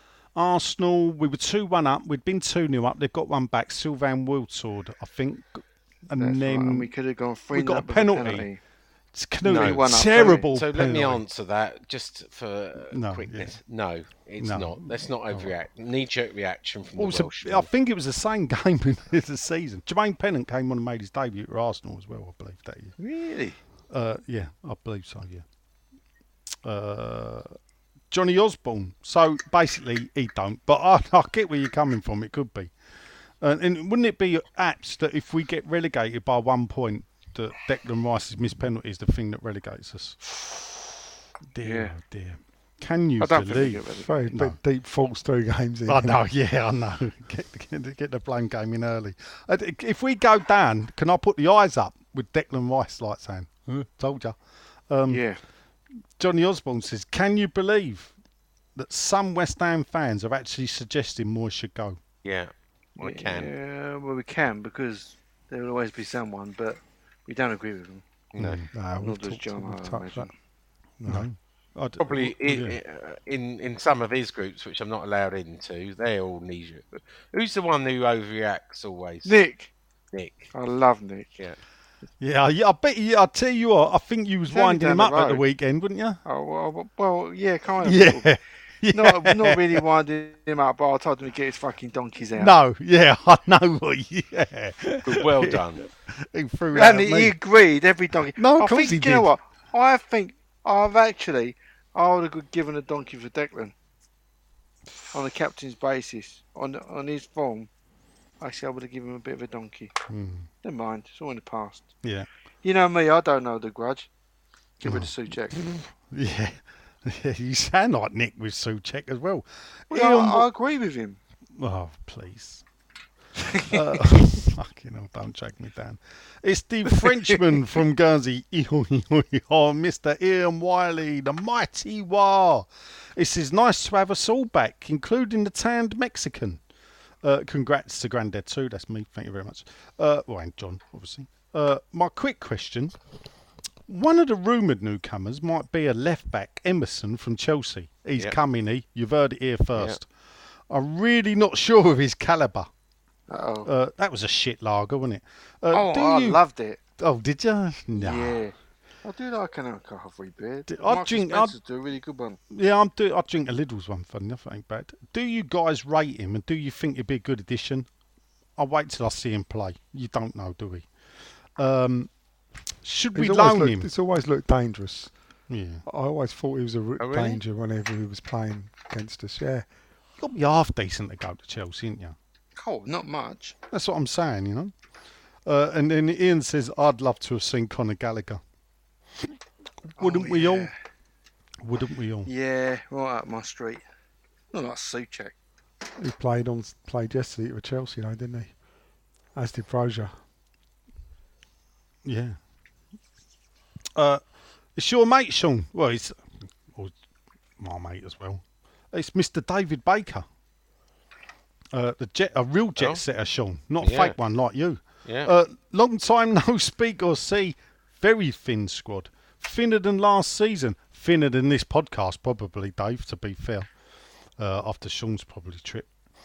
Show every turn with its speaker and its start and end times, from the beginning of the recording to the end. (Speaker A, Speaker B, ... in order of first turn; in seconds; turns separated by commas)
Speaker A: 0.3-6.9, Speaker B: 6.1-8.6, Speaker A: 7.5-8.5, Speaker A: 9.1-11.2, Speaker B: 9.4-10.5, Speaker C: 9.4-17.7, Speaker A: 12.9-13.6, Speaker A: 14.4-15.5, Speaker A: 17.0-22.9, Speaker B: 23.0-23.6, Speaker A: 23.9-25.4, Speaker A: 26.6-27.6, Speaker A: 28.1-32.7, Speaker A: 33.4-40.5, Speaker A: 41.5-44.6, Speaker B: 41.6-41.9, Speaker B: 43.2-44.2, Speaker D: 44.0-46.2, Speaker A: 45.9-54.4, Speaker A: 54.9-55.2, Speaker B: 55.1-55.4, Speaker A: 56.2-58.1, Speaker A: 58.8-62.0, Speaker C: 62.2-63.5, Speaker B: 63.0-68.1, Speaker C: 68.3-68.6, Speaker A: 68.4-68.7, Speaker D: 68.7-70.3, Speaker B: 69.0-70.3, Speaker D: 71.0-71.3, Speaker A: 71.0-72.8, Speaker C: 72.0-79.3, Speaker B: 79.2-79.7, Speaker C: 80.1-80.5, Speaker B: 80.5-81.3, Speaker A: 82.2-86.2, Speaker B: 84.5-85.5, Speaker B: 86.2-88.3, Speaker A: 87.8-89.8, Speaker B: 88.9-92.5, Speaker A: 92.4-97.3, Speaker C: 95.0-95.8, Speaker B: 96.7-103.8, Speaker A: 98.4-99.3, Speaker B: 105.1-107.7, Speaker B: 108.4-109.9, Speaker A: 110.1-110.5, Speaker B: 110.6-111.9, Speaker A: 112.0-112.3, Speaker B: 112.6-114.1, Speaker B: 114.8-115.7, Speaker A: 114.8-120.5, Speaker B: 119.9-121.2, Speaker A: 121.6-122.6, Speaker B: 123.5-124.0, Speaker A: 123.7-136.6, Speaker A: 137.2-142.9, Speaker A: 143.9-150.1, Speaker A: 150.7-152.7, Speaker B: 153.3-153.7, Speaker A: 153.7-156.4, Speaker B: 155.7-156.8, Speaker A: 157.0-158.4, Speaker B: 157.9-162.4, Speaker A: 160.7-161.6, Speaker A: 162.5-167.9, Speaker A: 168.6-170.9, Speaker A: 171.6-172.1, Speaker A: 172.8-173.9, Speaker D: 173.1-175.1, Speaker A: 175.5-175.8, Speaker D: 175.9-179.7, Speaker C: 177.0-177.4, Speaker A: 180.2-182.2, Speaker B: 182.6-183.6, Speaker A: 183.7-184.7, Speaker A: 185.5-188.4, Speaker A: 190.0-190.7, Speaker B: 190.0-190.7, Speaker A: 191.6-192.3, Speaker B: 192.3-193.8, Speaker B: 194.5-195.3, Speaker D: 196.0-198.5, Speaker D: 199.3-200.1, Speaker A: 202.0-202.4, Speaker A: 204.0-204.2, Speaker A: 204.8-206.9, Speaker A: 207.6-210.3, Speaker A: 211.7-223.7, Speaker C: 213.8-214.2, Speaker C: 215.1-215.3, Speaker A: 224.4-225.9